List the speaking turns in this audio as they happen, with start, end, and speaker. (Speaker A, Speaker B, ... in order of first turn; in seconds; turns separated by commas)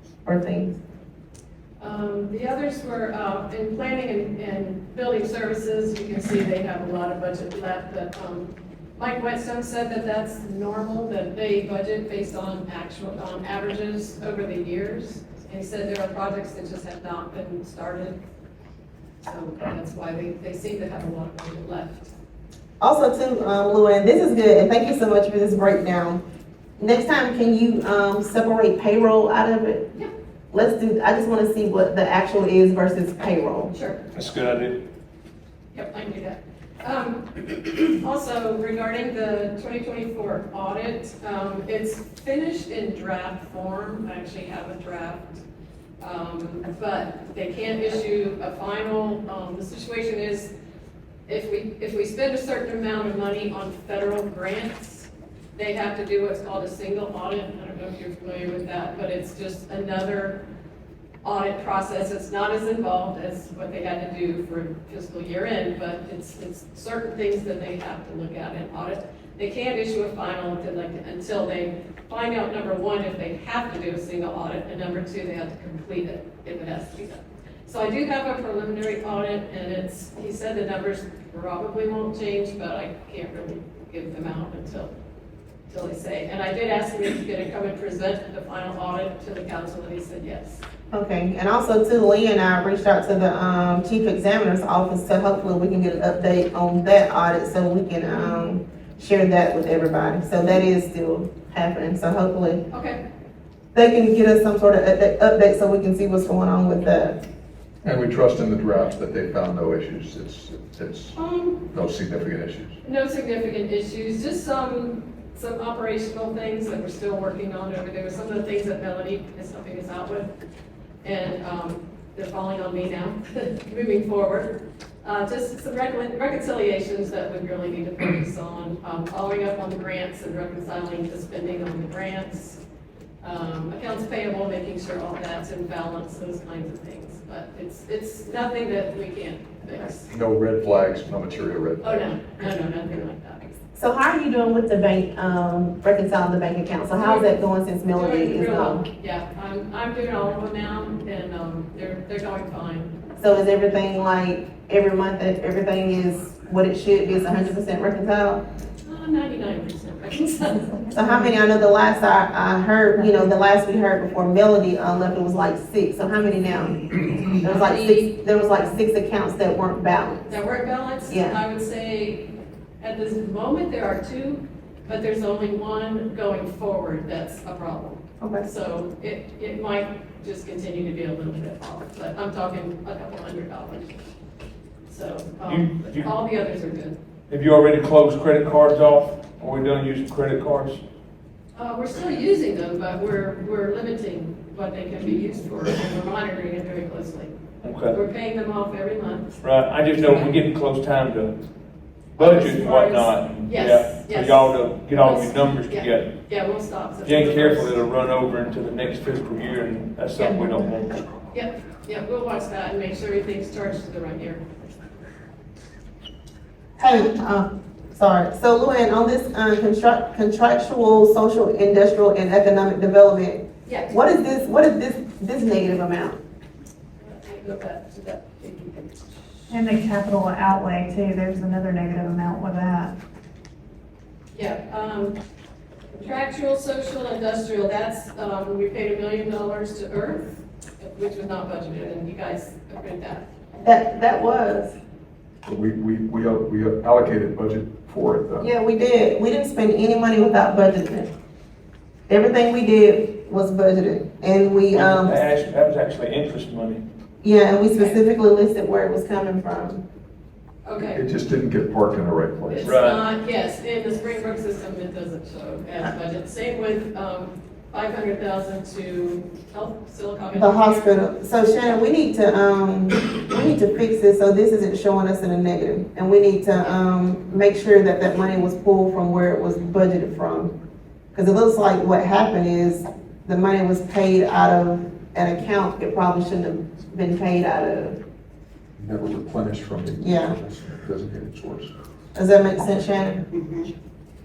Speaker A: 0.2-0.7, Speaker B: 1.8-18.2, Speaker B: 19.3-22.1, Speaker A: 22.8-26.2, Speaker A: 26.8-29.9, Speaker A: 30.5-33.7, Speaker B: 33.7-34.0, Speaker C: 34.1-34.7, Speaker B: 35.7-45.4, Speaker B: 46.0-50.5, Speaker B: 51.3-60.4, Speaker B: 61.2-84.9, Speaker B: 85.7-90.6, Speaker A: 90.9-102.6, Speaker B: 102.7-103.0, Speaker A: 103.7-107.2, Speaker D: 107.8-111.1, Speaker B: 111.2-111.7, Speaker D: 111.7-112.7, Speaker B: 112.8-120.3, Speaker B: 121.0-132.6, Speaker B: 133.2-140.1, Speaker D: 140.1-142.1, Speaker B: 141.8-143.4, Speaker A: 143.7-148.8, Speaker B: 147.0-147.3, Speaker B: 147.9-153.0, Speaker A: 153.2-158.4, Speaker B: 158.8-160.9, Speaker A: 160.9-170.3, Speaker B: 167.4-168.1, Speaker B: 170.3-183.9, Speaker A: 171.1-171.4, Speaker A: 178.2-178.4, Speaker B: 184.9-187.0, Speaker C: 185.5-186.1, Speaker C: 187.3-190.8, Speaker B: 191.5-197.3, Speaker C: 197.6-197.9, Speaker B: 197.9-199.4, Speaker C: 199.4-201.3, Speaker C: 202.2-206.1, Speaker B: 202.2-207.8, Speaker C: 207.0-211.0, Speaker B: 210.2-210.4, Speaker B: 211.3-214.4, Speaker A: 216.8-226.2, Speaker B: 223.7-223.9, Speaker B: 227.0-229.2, Speaker E: 229.5-232.9, Speaker B: 234.3-235.2, Speaker B: 235.9-243.2, Speaker A: 243.6-244.8, Speaker D: 245.4-248.5, Speaker A: 248.4-251.1, Speaker A: 252.1-255.1, Speaker C: 254.7-256.8, Speaker A: 257.2-259.8, Speaker B: 257.7-258.0, Speaker B: 260.6-261.0, Speaker D: 260.9-262.7, Speaker B: 262.5-270.9, Speaker C: 262.6-263.0, Speaker A: 270.4-280.5, Speaker A: 281.1-288.0, Speaker D: 288.8-291.7, Speaker A: 290.0-290.4, Speaker A: 292.1-293.2